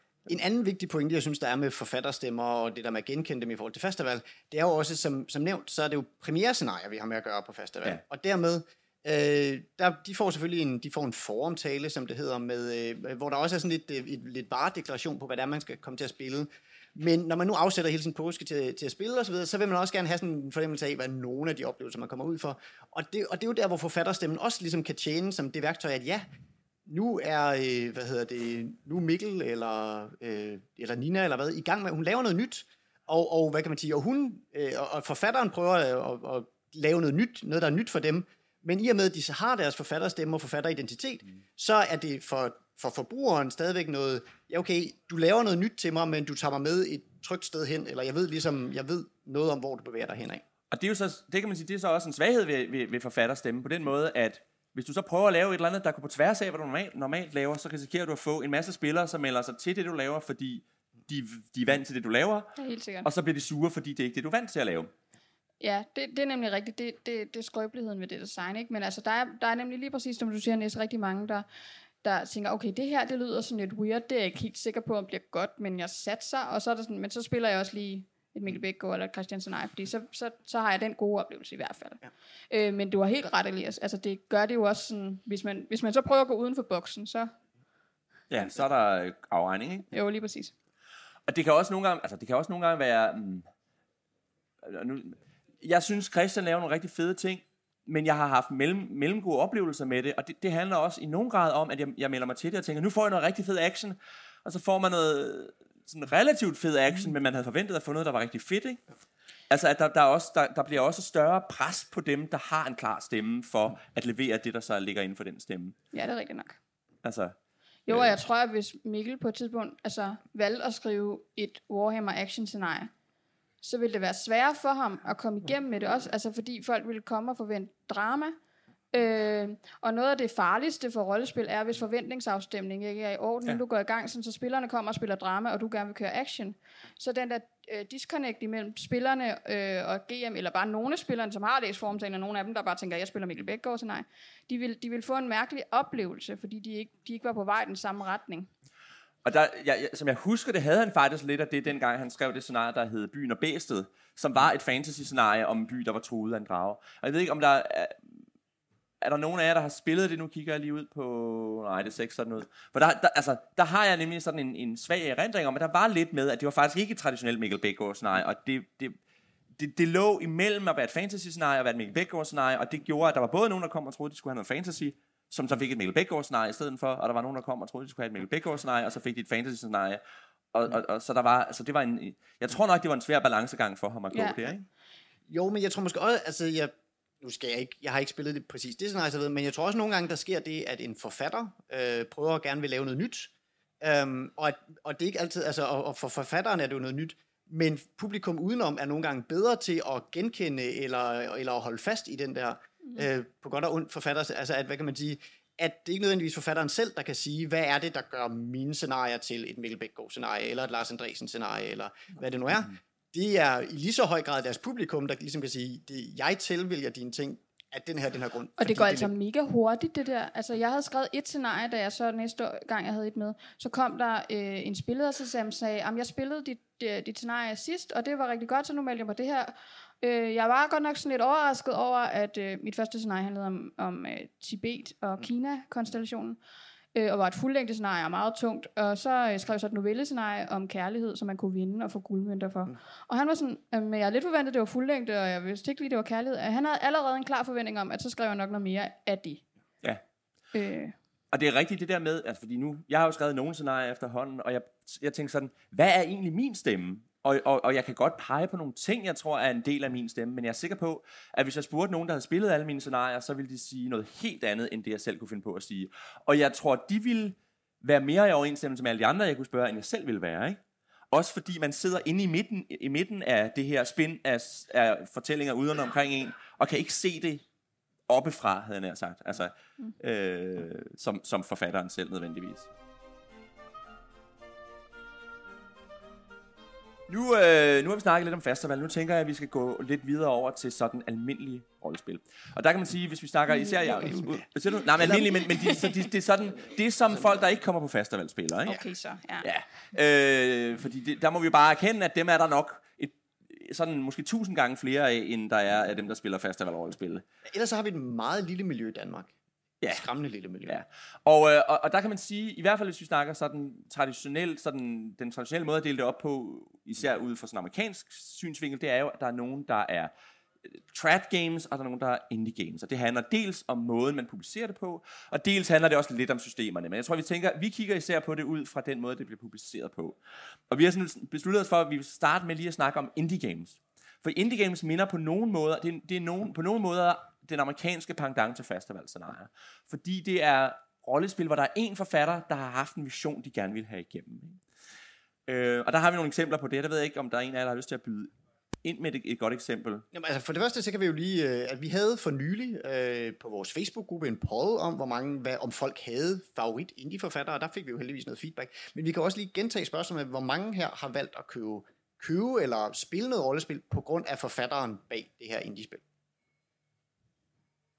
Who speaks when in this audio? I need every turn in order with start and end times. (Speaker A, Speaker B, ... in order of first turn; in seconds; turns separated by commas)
Speaker A: 0.3-26.3, Speaker A: 26.9-50.4, Speaker B: 50.7-62.5, Speaker C: 62.6-63.1, Speaker B: 63.0-64.9, Speaker C: 65.6-71.5, Speaker C: 72.0-87.3, Speaker B: 88.3-89.9, Speaker C: 89.9-90.5, Speaker B: 91.3-93.5, Speaker B: 94.6-108.8, Speaker B: 109.5-115.8, Speaker C: 115.9-116.6, Speaker B: 117.0-117.3, Speaker C: 117.9-122.9, Speaker C: 123.6-128.4, Speaker C: 128.9-148.5, Speaker B: 149.2-157.9, Speaker B: 159.0-169.0, Speaker B: 169.6-180.0, Speaker B: 180.5-184.6, Speaker C: 184.1-184.4, Speaker A: 185.3-219.1, Speaker C: 218.6-236.4, Speaker C: 236.9-249.4, Speaker C: 250.5-250.9, Speaker B: 251.3-270.6, Speaker B: 271.1-277.4, Speaker B: 278.1-282.7, Speaker B: 287.1-298.8, Speaker C: 295.2-295.8, Speaker C: 298.7-299.5, Speaker B: 299.4-307.2, Speaker A: 307.5-309.3, Speaker A: 309.9-310.8, Speaker B: 310.7-320.1, Speaker B: 320.9-330.2, Speaker B: 330.7-344.6, Speaker B: 345.5-348.3, Speaker B: 348.8-350.1, Speaker A: 350.1-366.0